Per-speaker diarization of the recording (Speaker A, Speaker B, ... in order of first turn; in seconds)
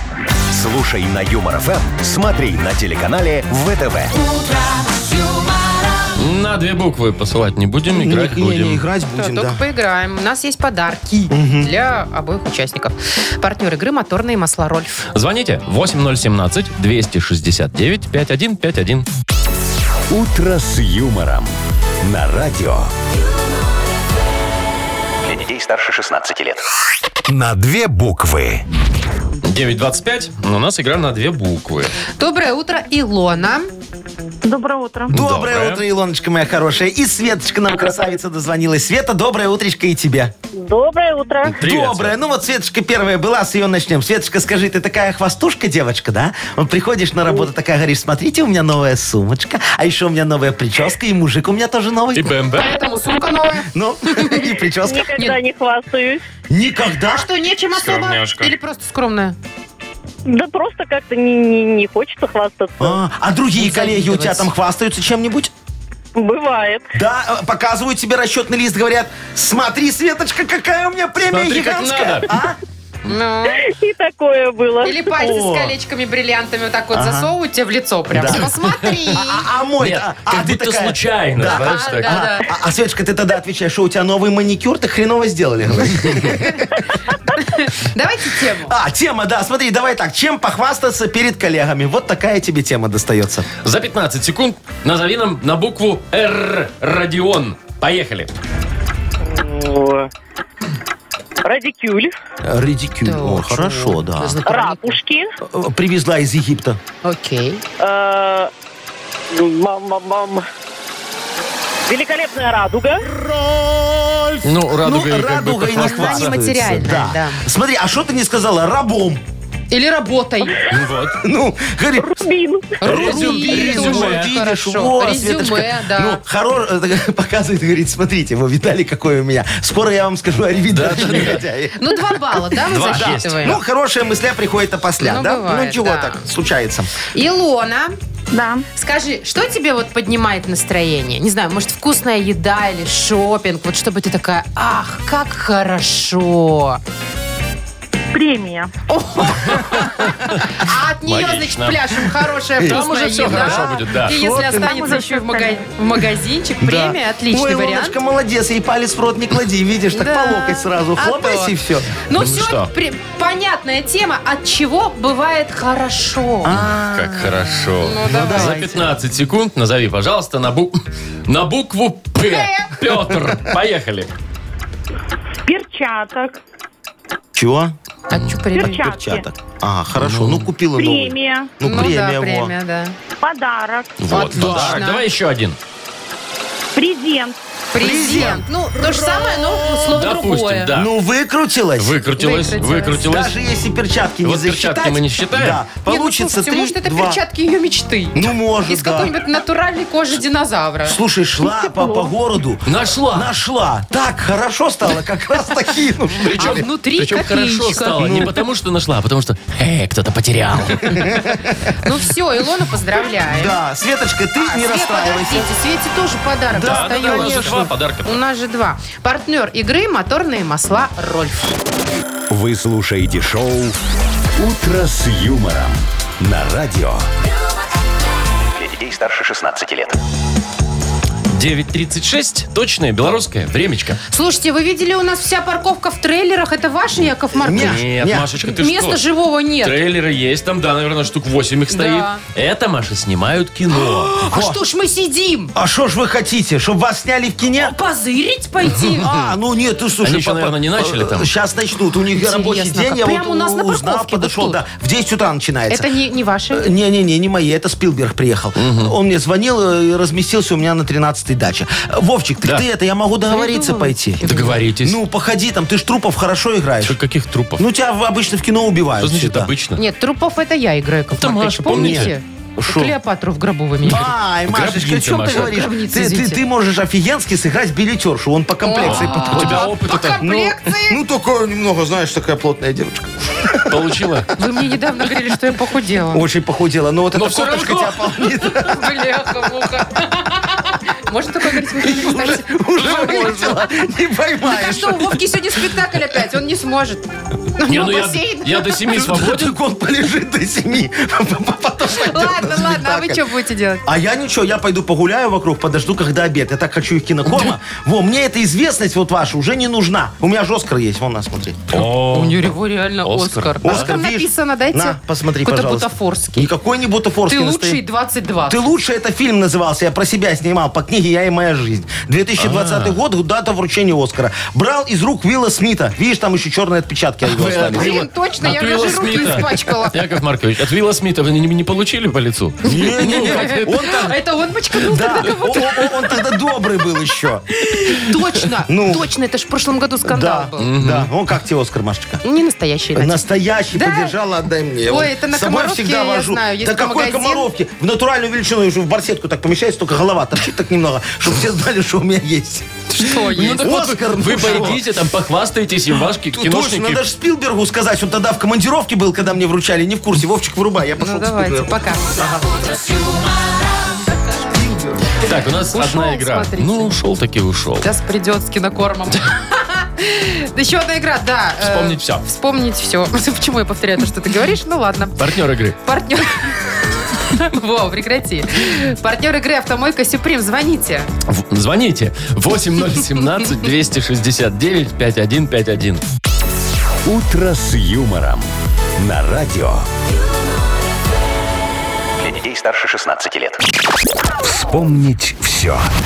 Speaker A: 0.5-4.1, 20.1-22.9, 27.3-28.6, 222.3-223.8, 224.4-227.1, 387.1-389.9, 394.4-395.9
Speaker B: 4.1-6.1, 25.3-26.6, 228.6-229.9, 362.4-364.0, 392.2-393.6
Speaker C: 6.2-8.8, 15.1-19.1, 29.4-31.9, 35.1-35.8, 41.4-42.1, 52.1-52.7, 57.7-58.5, 71.3-72.3, 79.8-82.2, 93.6-98.3, 114.4-116.4, 120.7-121.2, 122.8-124.3, 130.7-131.5, 132.7-133.6, 149.4-152.0, 152.7-154.2, 162.2-162.7, 166.5-174.1, 180.0-180.5, 184.0-185.6, 189.9-190.9, 191.8-193.4, 194.2-195.6, 202.7-203.3, 206.3-211.3, 216.6-218.2, 231.3-234.0, 237.5-239.0, 239.6-244.1, 250.0-251.3, 258.6-258.9, 264.2-265.0, 266.8-267.6, 269.0-269.8, 271.1-272.1, 274.5-275.6, 278.8-280.2, 283.6-284.3, 287.1-288.2, 297.7-299.5, 311.7-312.5, 313.0-313.9, 322.4-323.0, 327.2-333.7, 340.6-341.1, 353.3-357.0, 365.2-367.9, 371.6-372.2, 375.2-375.8, 381.3-386.0
Speaker D: 7.9-9.6, 11.3-11.7, 35.1-40.3, 41.6-52.4, 53.7-55.2, 56.5-57.3, 62.8-65.5, 66.9-72.6, 75.1-75.7, 76.9-77.3, 78.1-78.5, 79.0-86.9, 88.5-93.5, 102.4-104.4, 105.4-106.8, 113.1-119.2, 121.1-122.2, 122.8-132.0, 132.8-136.9, 152.6-154.8, 156.6-161.9, 166.4-168.9, 177.3-177.7, 178.6-182.5, 184.3-184.8, 187.8-189.5, 190.7-192.0, 193.0-197.2, 198.1-199.1, 200.8-206.7, 208.0-208.3, 210.9-211.6, 213.2-215.5, 216.5-217.7, 237.4-238.3, 243.8-244.6, 245.5-247.7, 248.7-255.9, 256.5-264.2, 264.8-267.0, 267.6-269.5, 271.7-272.9, 273.8-283.9, 286.1-289.5, 291.5-295.2, 298.8-303.3, 303.8-311.8, 313.6-317.8, 318.5-328.0, 332.6-334.2, 334.7-337.4, 338.7-339.1, 340.0-342.2, 342.9-354.8, 356.3-362.4, 364.4-365.2
Speaker E: 9.1-15.1, 32.2-33.7, 52.5-54.5, 57.1-59.4, 63.6-64.5, 73.0-73.7, 74.8-79.4, 81.5-82.5, 86.1-86.7, 87.3-88.7, 103.0-105.0, 107.0-107.6, 115.7-117.4, 119.7-120.6, 122.8-126.2, 131.7-133.6, 135.0-136.2, 137.1-137.9, 138.7-146.8, 148.9-158.0, 159.9-161.5, 162.1-166.6, 167.8-168.6, 172.2-172.8, 178.1-178.9, 181.6-182.9, 184.1-185.1, 187.7-190.7, 192.2-193.0, 195.8-201.0, 206.4-208.2, 211.8-213.6, 214.4-221.6, 234.1-237.8, 238.4-239.8, 241.7-242.2, 244.2-245.5, 247.6-249.1, 252.1-254.6, 255.7-256.7, 263.3-264.6, 269.8-274.1, 275.3-276.4, 278.6-281.0, 284.4-286.2, 288.5-293.8, 294.4-298.8, 301.9-303.8, 311.8-316.5, 317.3-318.7, 327.7-330.0, 332.7-335.9, 337.9-340.7, 342.2-344.1, 344.9-347.5, 352.9-353.7, 361.0-362.1, 365.7-367.0, 367.8-375.3, 375.8-381.1
Speaker F: 34.4-35.1, 40.5-41.6, 54.8-56.2, 60.2-63.0, 66.1-66.9, 73.5-75.1, 99.2-100.1, 101.4-102.1, 104.5-105.3, 107.8-108.5, 109.3-110.4, 111.8-113.0, 122.0-122.8, 138.3-138.7, 148.1-148.7, 154.4-155.6, 175.4-176.4, 178.5-179.3, 180.7-181.5, 183.2-184.1, 186.7-187.4, 201.7-201.9